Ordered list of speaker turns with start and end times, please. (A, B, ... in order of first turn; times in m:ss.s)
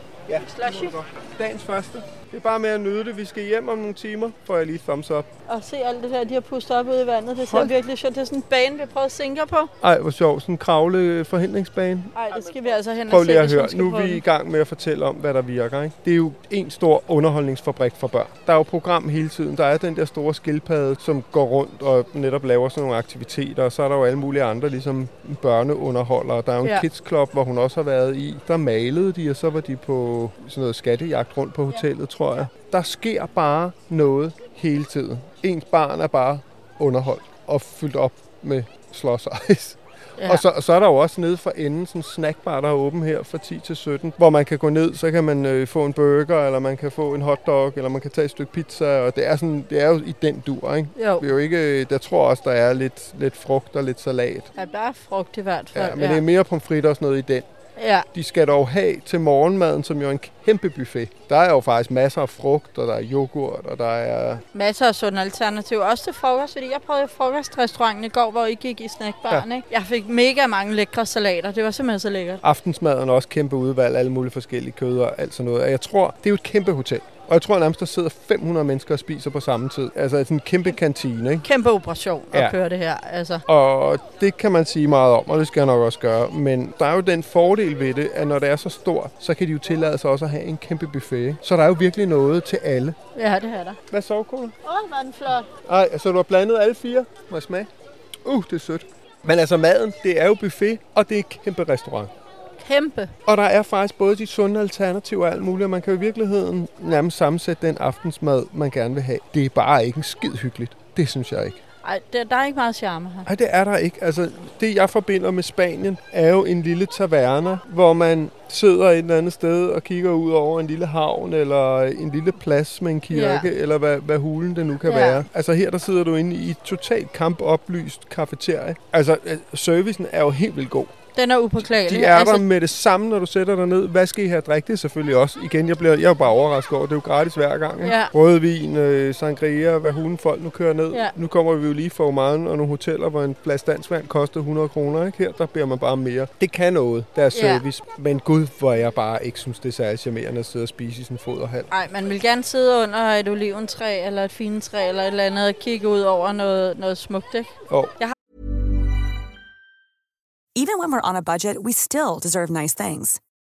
0:00.3-0:05.3 A
0:00.4-0:00.9 B
0:05.5-0:09.7 B
0:07.4-0:07.7 A
0:09.8-0:12.1 A
0:12.2-0:14.2 B
0:13.1-0:54.5 A
0:40.2-0:40.4 B
0:51.0-0:51.2 B
0:54.6-0:56.2 B
0:55.7-0:57.5 A
0:57.8-0:58.0 B
0:58.1-1:04.4 A
1:04.5-1:12.4 B
1:12.4-1:21.4 A
1:21.4-1:23.4 B
1:23.5-1:33.0 A
1:33.1-1:33.8 B
1:33.9-1:34.5 A
1:34.6-1:35.5 B
1:35.6-1:37.7 A
1:38.2-1:42.1 A
1:42.6-1:43.1 B
1:43.2-1:51.6 A
1:51.8-1:53.3 B
1:53.2-2:10.9 A
2:03.1-2:03.5 B
2:04.8-2:05.2 B
2:11.1-2:12.4 B
2:11.8-2:31.7 A
2:17.8-2:18.1 B
2:27.3-2:27.6 B
2:31.7-2:38.1 B
2:40.5-2:43.2 C